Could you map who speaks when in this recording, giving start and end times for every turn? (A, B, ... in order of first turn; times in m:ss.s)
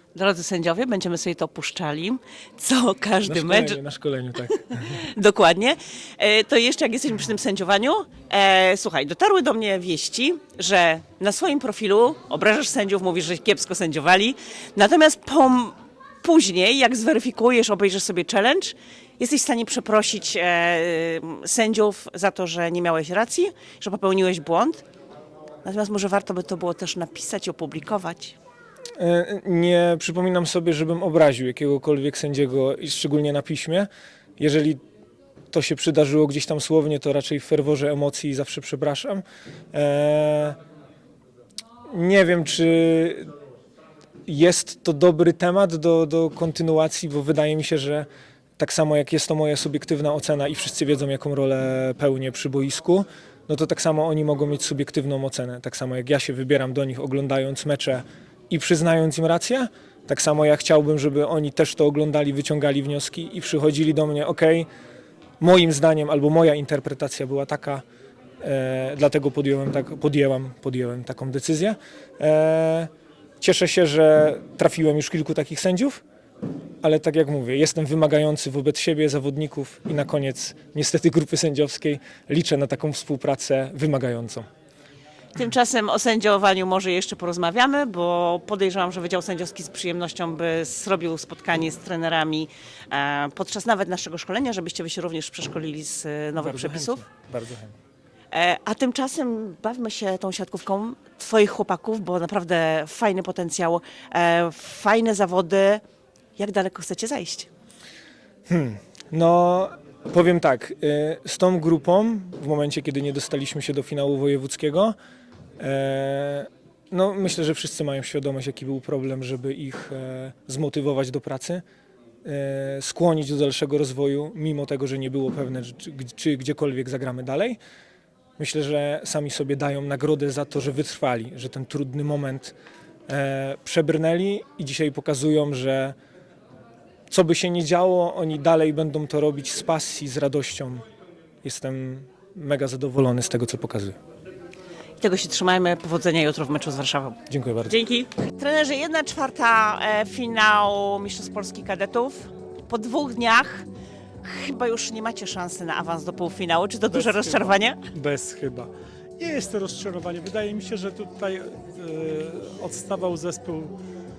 0:00.2-0:03.8 A
0:03.2-0:05.0 B
0:04.7-0:24.8 A
0:25.6-0:28.4 A
0:29.0-0:34.8 B
0:35.5-0:40.6 B
0:41.9-0:43.3 B
0:44.3-0:48.1 B
0:48.6-1:04.7 B
1:05.4-1:07.8 B
1:08.4-1:16.0 B
1:16.8-1:24.5 B
1:25.4-1:37.0 A
1:36.4-1:37.8 B
1:38.3-1:45.8 A
1:46.4-1:47.5 A
1:48.5-1:55.0 B
1:55.6-2:01.6 B
2:02.2-2:07.6 B
2:08.4-2:12.6 B
2:13.1-2:16.0 B
2:17.1-2:20.8 B
2:21.4-2:24.0 B
2:25.0-2:33.7 A
2:27.3-2:27.8 B
2:34.2-2:37.8 A
2:36.9-2:43.7 C